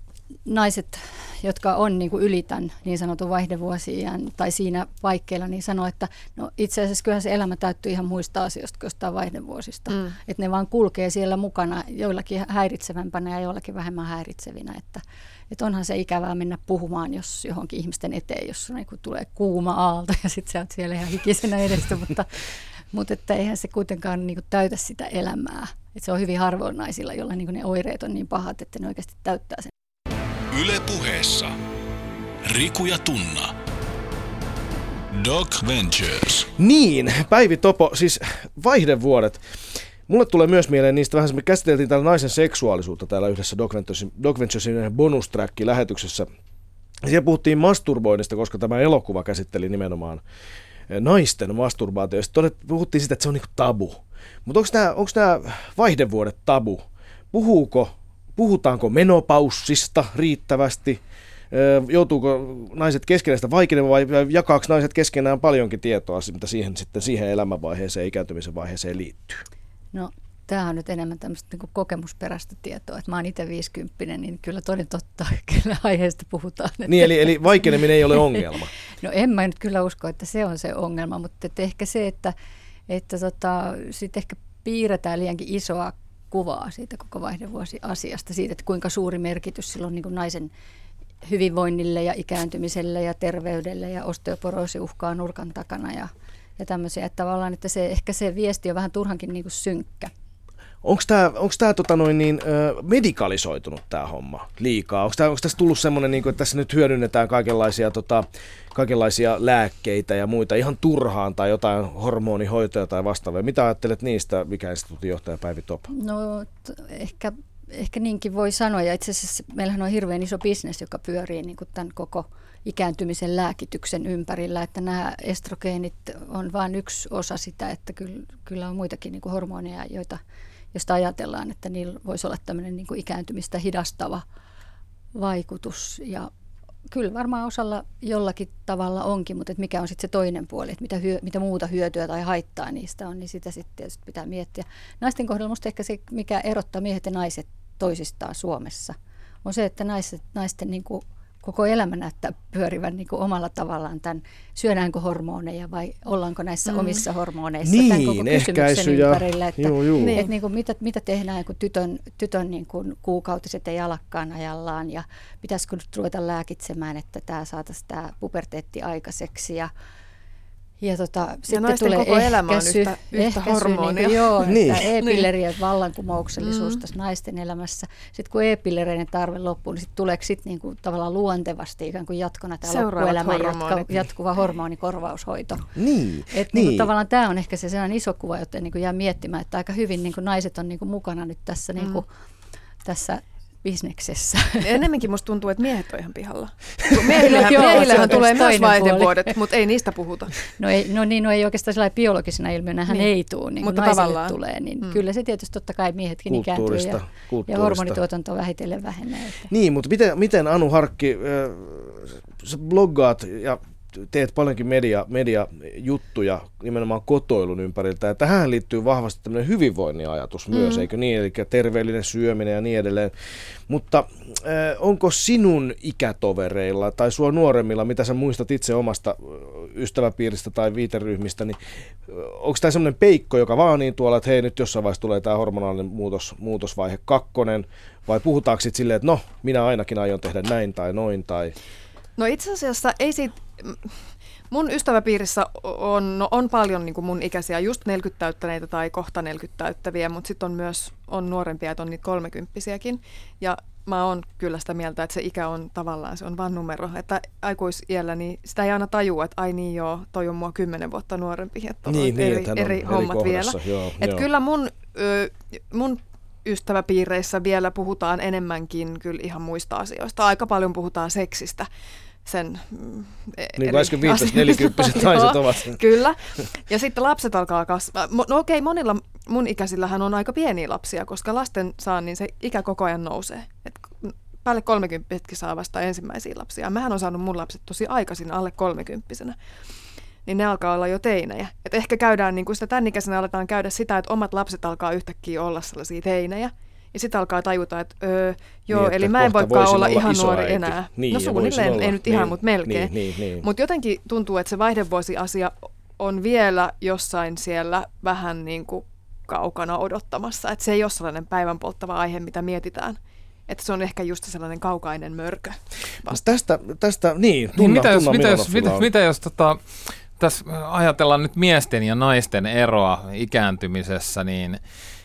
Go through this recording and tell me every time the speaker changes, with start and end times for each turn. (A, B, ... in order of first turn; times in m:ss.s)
0:00.4-0:29.7 A
0:30.5-0:31.5 B
0:32.4-0:33.5 B
0:35.1-0:36.5 B
0:36.6-0:39.4 C
0:40.1-0:46.3 C
0:47.0-0:50.2 C
0:50.9-1:01.0 C
1:01.5-1:09.4 C
1:09.9-1:18.4 A
1:16.9-1:18.7 C
1:19.0-1:22.3 A
1:22.9-1:30.5 A
1:31.2-1:40.1 A
1:40.8-1:55.9 C
1:55.9-2:10.2 A
2:10.7-2:14.2 A
2:15.1-2:16.3 A
2:16.9-2:49.7 A
2:36.7-2:37.0 D
2:37.6-2:40.2 C
2:40.0-2:40.3 D
2:50.8-3:05.7 A
2:51.5-2:54.4 D
2:54.4-2:54.8 C
2:55.0-2:55.2 D
2:56.4-2:56.8 D
3:02.6-3:03.9 D
3:05.7-3:06.9 C
3:06.3-3:12.1 A
3:12.8-3:14.8 A
3:14.6-3:20.3 D
3:17.1-3:19.3 A
3:20.6-3:29.5 A
3:23.6-3:25.0 D
3:26.3-3:28.0 C
3:29.5-3:43.1 C
3:40.5-3:40.8 D
3:43.7-4:01.5 C
4:02.2-4:03.9 D
4:04.5-4:31.7 D
4:21.8-4:24.3 C
4:32.2-4:49.4 D
4:33.6-4:35.8 C
4:50.2-5:16.2 D
4:58.7-5:03.5 C
5:16.0-5:18.9 C
5:17.6-5:24.6 E